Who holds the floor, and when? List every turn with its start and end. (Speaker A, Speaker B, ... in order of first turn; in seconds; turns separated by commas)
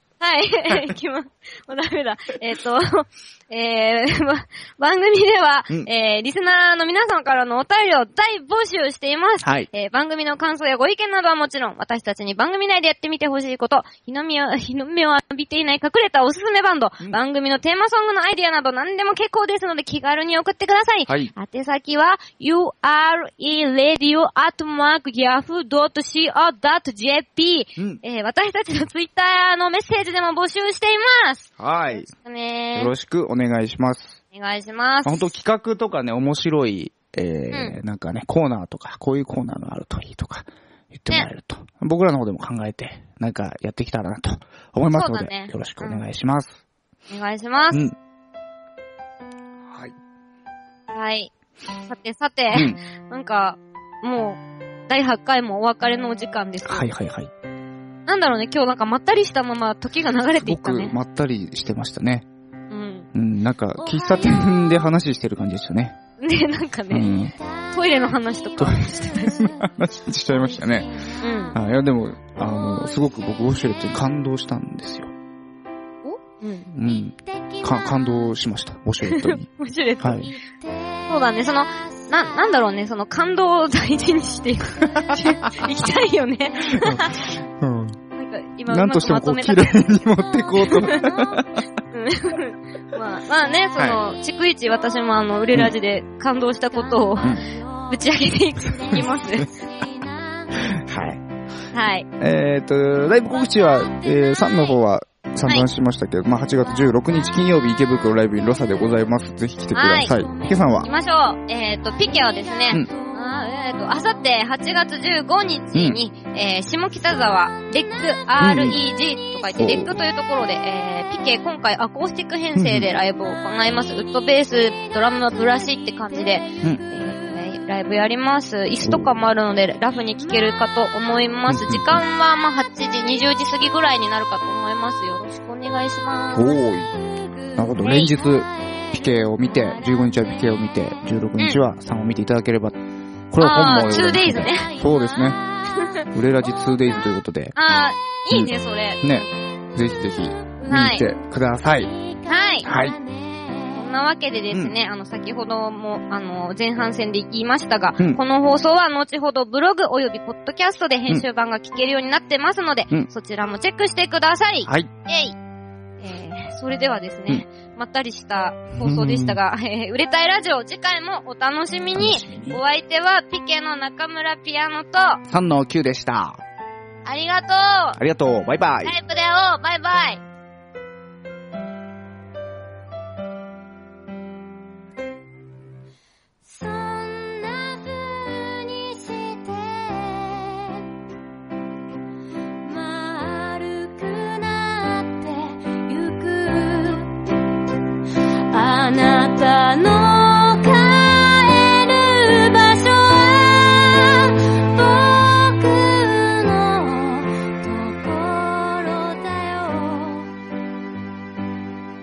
Speaker A: 0.2-32.9, Speaker B: 9.4-9.7, Speaker B: 21.1-21.3, Speaker B: 31.6-32.1, Speaker B: 32.8-34.2, Speaker A: 34.3-35.3, Speaker B: 35.0-46.6, Speaker A: 37.5-37.8, Speaker A: 44.9-46.0, Speaker A: 47.1-47.8, Speaker B: 49.7-49.9, Speaker A: 50.9-51.3, Speaker A: 51.9-56.9, Speaker B: 52.5-52.8, Speaker B: 56.6-57.3, Speaker A: 58.1-60.9, Speaker B: 60.4-62.3, Speaker A: 62.7-63.1, Speaker B: 63.1-66.0, Speaker C: 63.8-64.8, Speaker A: 66.2-67.1, Speaker B: 66.9-67.4, Speaker A: 67.7-69.4, Speaker B: 68.6-70.9, Speaker C: 69.3-69.7, Speaker C: 70.3-71.2, Speaker A: 71.2-71.6, Speaker B: 71.5-75.1, Speaker A: 76.0-76.7, Speaker B: 76.7-79.5, Speaker C: 77.6-78.1, Speaker A: 79.0-80.2, Speaker B: 80.0-80.3, Speaker C: 80.3-81.1, Speaker A: 81.1-87.2, Speaker B: 85.2-85.6, Speaker B: 86.8-88.0, Speaker A: 88.2-90.0, Speaker B: 88.7-91.6, Speaker A: 90.6-91.1, Speaker C: 91.0-91.4, Speaker A: 91.9-99.5, Speaker C: 97.0-97.6, Speaker C: 98.6-99.1, Speaker C: 99.8-100.6, Speaker B: 100.6-101.2, Speaker A: 101.7-102.1, Speaker B: 102.2-110.9, Speaker A: 109.7-110.2, Speaker C: 110.2-110.5, Speaker A: 110.8-136.6, Speaker C: 112.9-113.4, Speaker B: 115.7-116.0, Speaker B: 118.4-118.8, Speaker B: 119.6-119.9, Speaker B: 122.6-122.9, Speaker B: 128.8-129.1, Speaker B: 131.5-132.0, Speaker B: 136.3-136.9, Speaker C: 136.9-140.5, Speaker B: 137.6-142.8, Speaker A: 137.8-138.1, Speaker B: 143.3-145.4, Speaker A: 143.4-144.7, Speaker C: 144.6-145.9, Speaker A: 145.8-146.1, Speaker B: 146.1-147.6, Speaker A: 147.6-149.3, Speaker B: 148.3-151.9, Speaker A: 150.6-151.1, Speaker C: 152.1-153.8, Speaker A: 152.3-152.7, Speaker B: 152.7-153.0, Speaker A: 153.7-165.4, Speaker B: 164.7-164.9, Speaker A: 166.0-175.2, Speaker B: 168.8-169.4, Speaker B: 171.9-172.6, Speaker B: 175.3-176.4, Speaker A: 177.1-178.0, Speaker B: 178.0-179.0, Speaker A: 178.8-180.2, Speaker C: 186.4-190.8, Speaker C: 192.6-197.4, Speaker C: 198.5-210.3